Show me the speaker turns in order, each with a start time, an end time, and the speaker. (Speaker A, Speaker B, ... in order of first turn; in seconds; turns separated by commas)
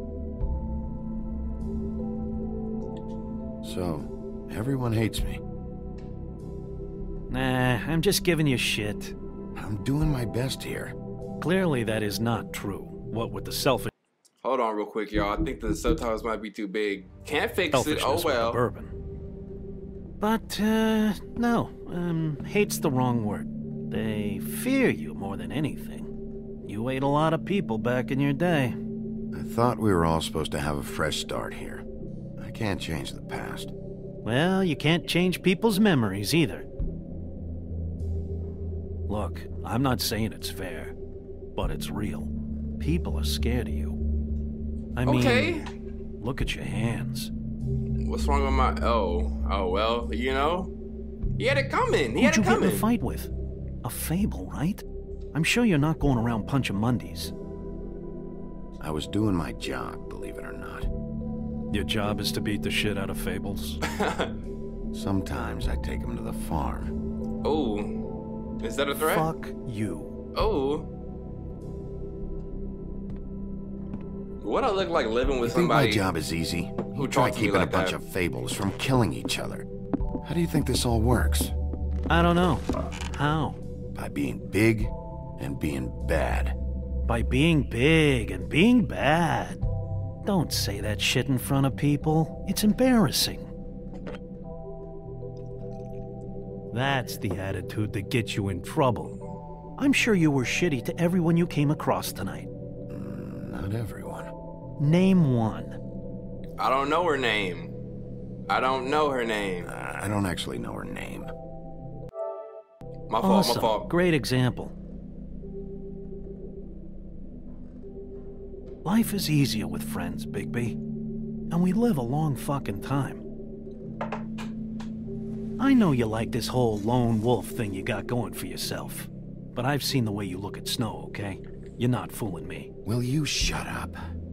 Speaker A: 3.6-5.4, Speaker B: 7.3-9.1, Speaker A: 9.5-10.9, Speaker B: 11.4-13.9, Speaker C: 14.4-18.6, Speaker B: 17.7-18.9, Speaker B: 20.2-26.1, Speaker B: 26.6-28.8, Speaker A: 29.3-31.8, Speaker A: 32.4-33.7, Speaker B: 34.2-36.6, Speaker B: 39.1-41.0, Speaker B: 41.5-44.0, Speaker B: 45.0-45.6, Speaker C: 45.0-45.7, Speaker B: 46.2-47.3, Speaker C: 48.0-50.7, Speaker C: 51.4-52.9, Speaker B: 52.2-53.3, Speaker B: 53.8-57.3, Speaker A: 58.8-60.9, Speaker B: 61.7-63.8, Speaker C: 63.8-64.3, Speaker A: 64.9-66.9, Speaker C: 67.4-68.0, Speaker C: 68.6-69.3, Speaker B: 69.0-70.1, Speaker C: 70.3-70.9, Speaker C: 74.4-76.0, Speaker A: 75.4-79.7, Speaker C: 76.9-78.0, Speaker A: 80.2-81.5, Speaker B: 82.1-83.6, Speaker A: 83.9-86.5, Speaker B: 87.1-89.6, Speaker B: 90.2-93.5, Speaker B: 96.7-99.2, Speaker B: 99.8-102.5, Speaker A: 102.9-104.3, Speaker B: 104.8-105.8, Speaker C: 106.6-107.7, Speaker C: 108.5-109.7, Speaker A: 109.6-111.3, Speaker C: 113.1-113.9, Speaker B: 113.2-114.7, Speaker B: 118.8-120.8, Speaker B: 121.5-123.2, Speaker B: 125.6-132.7, Speaker A: 132.8-134.0